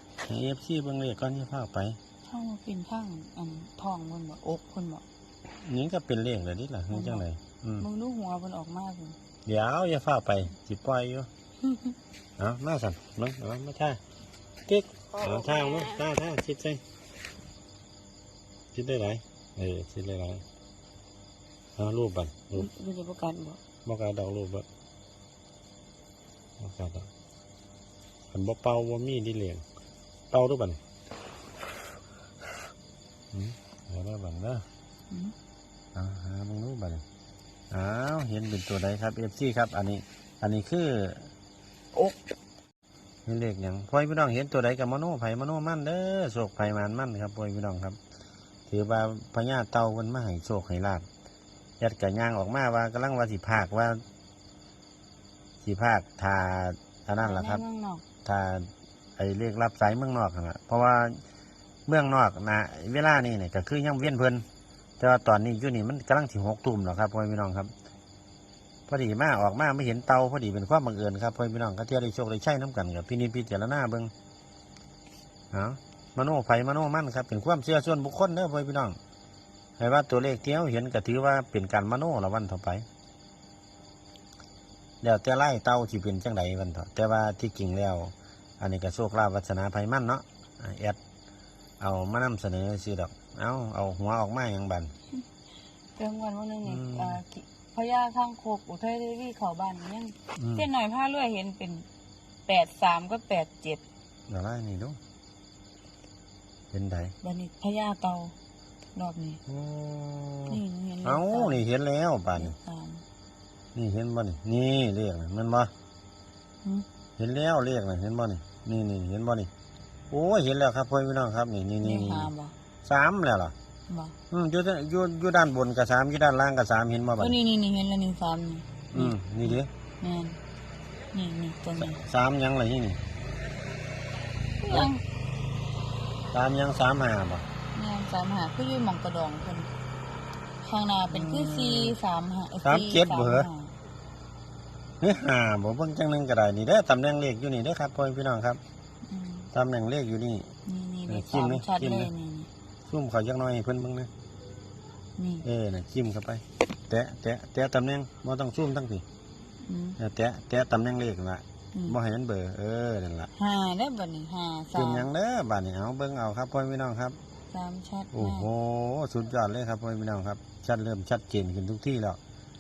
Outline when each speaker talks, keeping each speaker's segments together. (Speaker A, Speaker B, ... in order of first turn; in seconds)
Speaker A: 0.2-2.0, 5.6-7.9, 9.5-11.3, 12.4-14.0, 14.7-16.8, 18.7-20.4, 21.8-22.7, 23.9-24.7, 26.6-27.1, 28.3-29.6, 30.3-30.8, 33.3-34.6, 35.9-37.0, 37.7-41.3, 43.3-48.0, 48.7-51.1, 51.8-54.0, 55.6-57.6, 58.2-61.2, 61.9-64.5, 65.0-67.7, 68.9-74.1, 75.5-79.0, 79.8-82.9, 85.0-91.0, 91.8-94.9, 96.6-97.2, 100.4-100.7, 104.3-105.0, 106.7-107.2, 109.5-112.6, 113.8-115.7, 117.2-119.5, 120.1-122.3, 122.8-123.5, 124.3-127.4, 128.9-129.7, 131.8-133.0, 136.3-137.4, 141.1-142.0, 142.6-143.5, 145.0-148.6, 149.5-150.5, 151.1-152.1, 152.9-154.1, 155.4-159.0, 160.0-163.3, 164.8-167.2, 168.1-172.2
Speaker B: 2.3-5.0, 6.9-7.2, 7.8-9.2, 11.7-11.9, 15.1-16.0, 22.5-23.6, 41.9-42.2, 57.2-58.0, 96.0-101.9, 102.5-103.8, 107.2-108.3, 108.9-109.4, 110.5-111.7, 112.4-113.0, 121.8-122.5, 123.9-124.2, 127.2-130.4, 131.1-132.0, 134.6-135.0, 137.8-139.7, 140.6-143.7, 149.1-149.5, 150.7-152.5, 155.2-155.4, 159.6-160.0, 163.4-165.1, 167.5-168.5